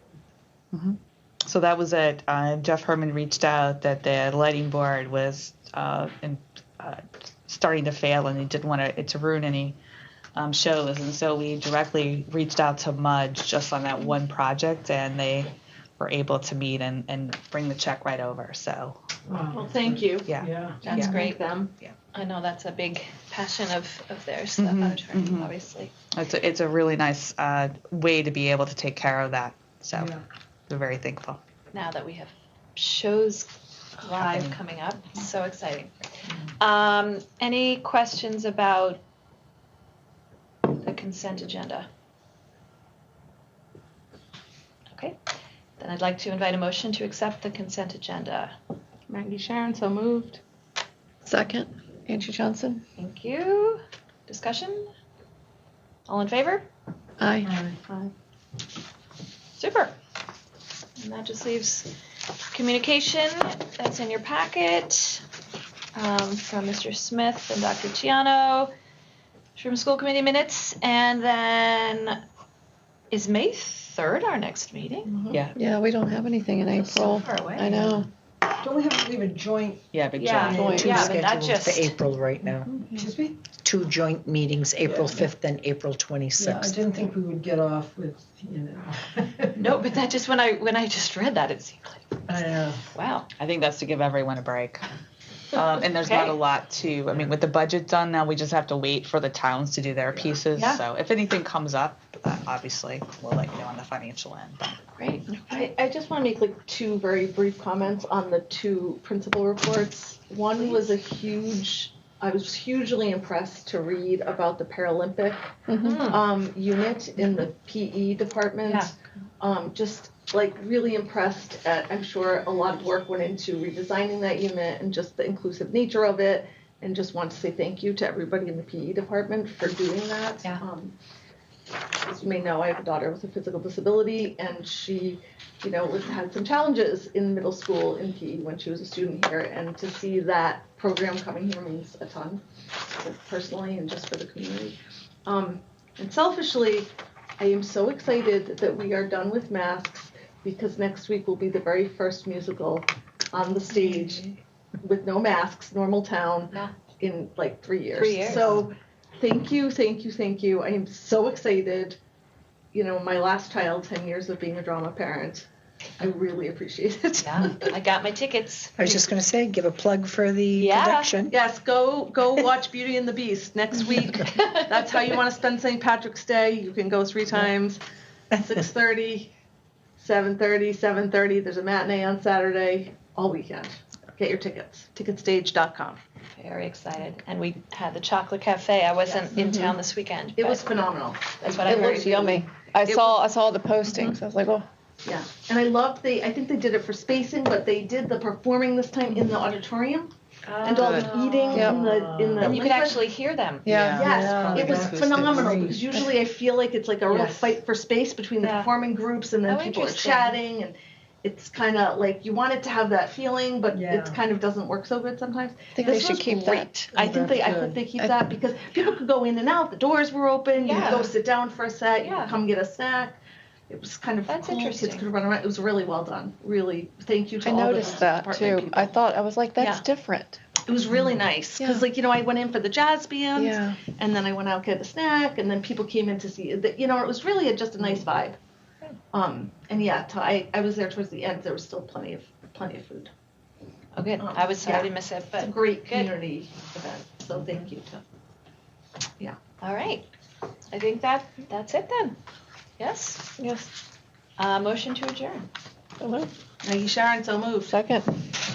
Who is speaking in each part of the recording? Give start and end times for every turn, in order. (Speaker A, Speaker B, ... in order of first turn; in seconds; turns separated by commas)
Speaker A: 0.7-9.8, Speaker A: 10.3-19.0, Speaker B: 19.3-20.8, Speaker C: 19.5-21.7, Speaker A: 20.2-21.9, Speaker D: 20.8-21.5, Speaker D: 22.1-25.9, Speaker A: 24.6-25.5, Speaker A: 26.1-30.2, Speaker B: 29.9-30.2, Speaker A: 30.7-31.4, Speaker D: 31.7-35.9, Speaker A: 34.2-34.6, Speaker D: 36.6-39.0, Speaker D: 40.7-41.9, Speaker D: 45.8-48.5, Speaker C: 49.1-50.4, Speaker E: 51.2-52.8, Speaker D: 53.0-54.9, Speaker D: 56.1-56.7, Speaker E: 57.2-57.5, Speaker B: 57.5-57.8, Speaker D: 59.6-60.0, Speaker D: 61.0-61.9, Speaker D: 62.5-65.2, Speaker D: 66.0-68.7, Speaker D: 69.6-72.2, Speaker D: 73.1-75.1, Speaker C: 75.1-75.4, Speaker E: 75.5-78.1, Speaker D: 76.7-77.8, Speaker B: 77.7-78.0, Speaker B: 78.6-81.2, Speaker A: 79.9-80.7, Speaker D: 80.2-82.0, Speaker E: 80.5-81.1, Speaker F: 80.8-82.7, Speaker B: 83.0-83.4, Speaker F: 83.6-86.8, Speaker B: 84.8-85.3, Speaker B: 86.4-89.7, Speaker D: 89.6-93.3, Speaker B: 92.3-92.8, Speaker A: 93.4-94.9, Speaker A: 95.5-104.7, Speaker D: 96.0-96.4, Speaker D: 100.5-100.8, Speaker D: 105.0-105.4, Speaker C: 105.3-130.9, Speaker D: 110.6-110.9, Speaker E: 115.7-116.0, Speaker D: 115.8-116.2, Speaker D: 118.7-118.9, Speaker C: 132.0-154.2, Speaker D: 153.7-154.3, Speaker C: 154.8-162.0, Speaker D: 157.9-158.6, Speaker C: 162.7-165.5, Speaker C: 166.0-167.6, Speaker D: 167.2-169.1, Speaker F: 168.8-171.3, Speaker D: 170.6-171.1, Speaker C: 171.3-177.8, Speaker D: 174.1-174.8, Speaker C: 178.3-179.3, Speaker C: 180.0-186.0, Speaker D: 186.4-190.7, Speaker C: 189.1-189.3, Speaker E: 189.3-189.8, Speaker C: 190.4-193.3, Speaker D: 191.4-192.3, Speaker E: 191.7-194.7, Speaker C: 193.9-194.2, Speaker C: 195.1-200.1, Speaker D: 200.5-201.8, Speaker C: 200.6-203.0, Speaker A: 200.7-201.1, Speaker E: 201.5-201.9, Speaker B: 201.7-202.6, Speaker D: 202.4-203.7, Speaker E: 203.7-204.1, Speaker A: 203.7-205.4, Speaker C: 203.9-223.2, Speaker B: 204.0-206.0, Speaker B: 207.1-207.6, Speaker D: 208.4-208.7, Speaker D: 209.5-210.4, Speaker B: 213.7-214.2, Speaker E: 215.8-216.9, Speaker B: 216.9-217.9, Speaker E: 217.9-218.3, Speaker D: 220.6-221.1, Speaker D: 222.0-222.4, Speaker C: 223.7-229.0, Speaker D: 224.3-225.1, Speaker E: 227.4-230.4, Speaker C: 229.6-229.9, Speaker C: 230.6-238.4, Speaker E: 231.6-231.9, Speaker E: 233.3-233.8, Speaker C: 239.1-243.1, Speaker D: 243.9-246.1, Speaker C: 244.2-248.0, Speaker D: 249.6-250.1, Speaker D: 250.7-252.2, Speaker D: 252.8-253.3, Speaker E: 253.4-253.7, Speaker D: 254.4-255.5, Speaker E: 256.0-256.3, Speaker C: 256.6-257.8, Speaker E: 257.7-258.1